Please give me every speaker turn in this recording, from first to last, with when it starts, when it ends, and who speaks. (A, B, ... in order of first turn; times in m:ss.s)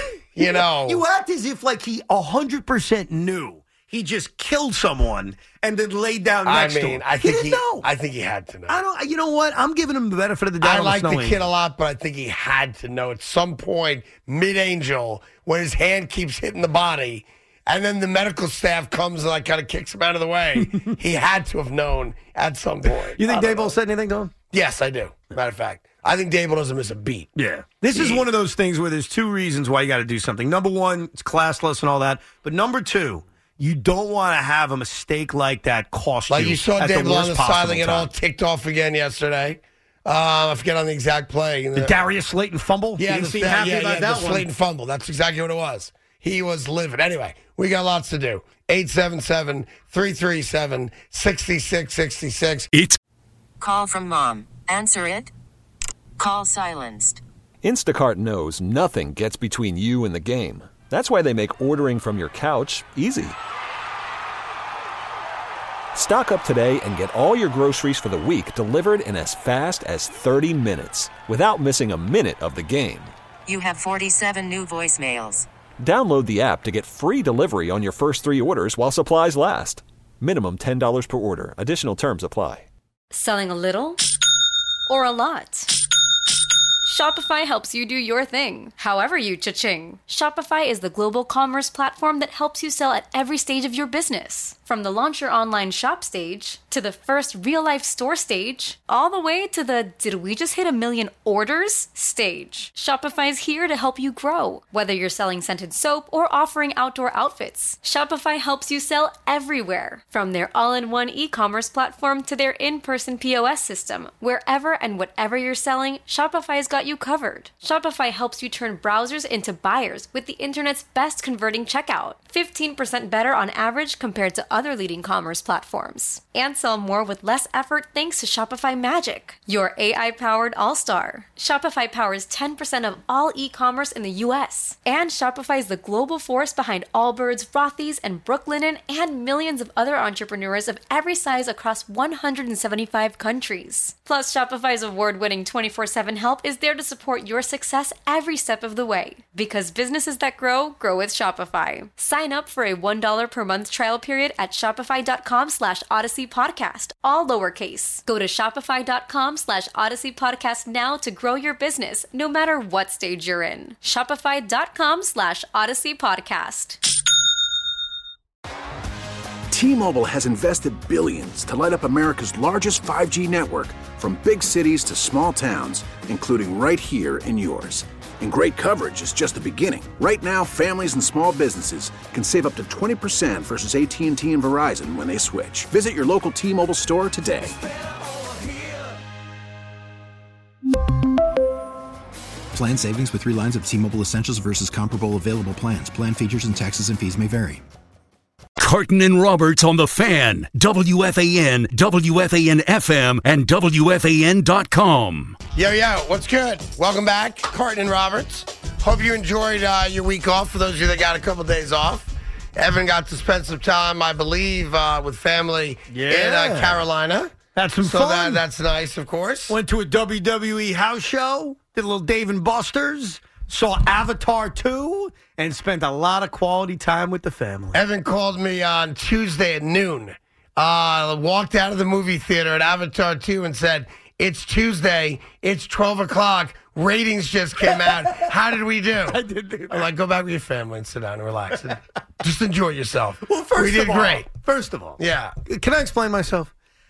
0:00.4-0:01.0 A
0:00.4-0:07.9 B
0:06.4-0:08.8 A
0:08.7-0:11.4 B
0:10.6-0:23.8 A
0:20.6-0:20.9 B
0:23.1-0:24.3 B
0:24.5-0:27.3 A
0:27.4-0:38.1 B
0:27.9-0:28.3 A
0:36.3-0:42.0 A
0:41.8-0:44.5 B
0:43.0-0:52.7 A
0:52.7-0:53.0 C
0:53.6-0:55.3 D
0:56.2-0:57.2 D
0:57.6-1:03.4 E
1:05.9-1:13.1 E
1:13.5-1:15.5 D
1:15.8-1:22.7 E
1:23.1-1:24.0 F
1:24.9-1:25.7 F
1:26.8-2:46.8 F
2:49.5-3:07.6 G
3:12.5-3:17.6 H
3:18.6-3:25.4 C
3:25.6-3:39.5 A
3:35.9-3:36.8 B
3:37.6-3:38.4 B
3:39.5-3:47.8 B
3:47.7-4:04.3 A
3:57.6-3:58.3 B
3:59.1-3:59.8 B
4:03.2-4:06.5 B
4:05.0-4:05.3 A